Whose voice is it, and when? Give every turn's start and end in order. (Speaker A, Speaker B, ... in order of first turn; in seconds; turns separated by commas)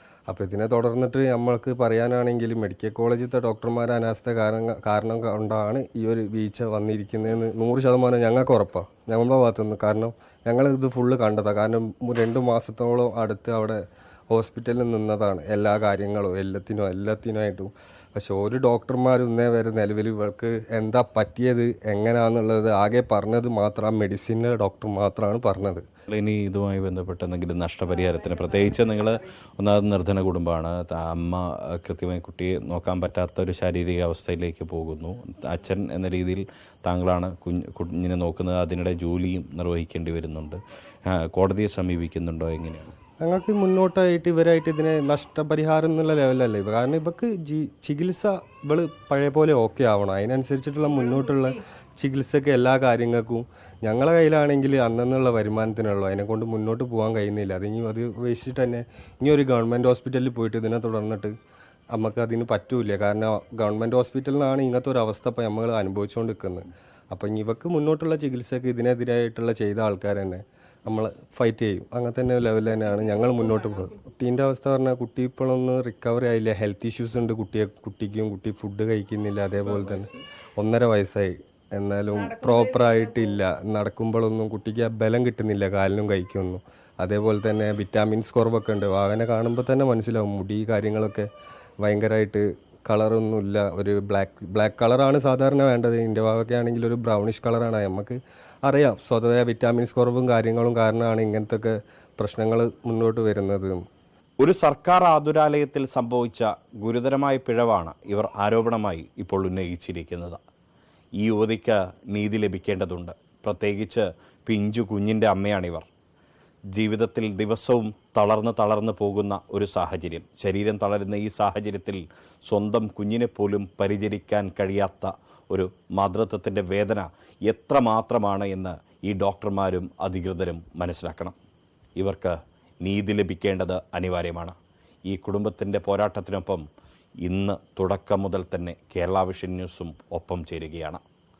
Speaker A: 0.3-25.8, Speaker B: 26.1-42.9, Speaker A: 43.2-61.3, Speaker A: 61.9-91.3, Speaker B: 79.6-80.2, Speaker A: 91.8-103.8, Speaker B: 104.4-110.4, Speaker B: 111.2-115.9, Speaker B: 116.7-131.3, Speaker B: 132.0-134.6, Speaker B: 135.1-136.7, Speaker B: 137.2-141.0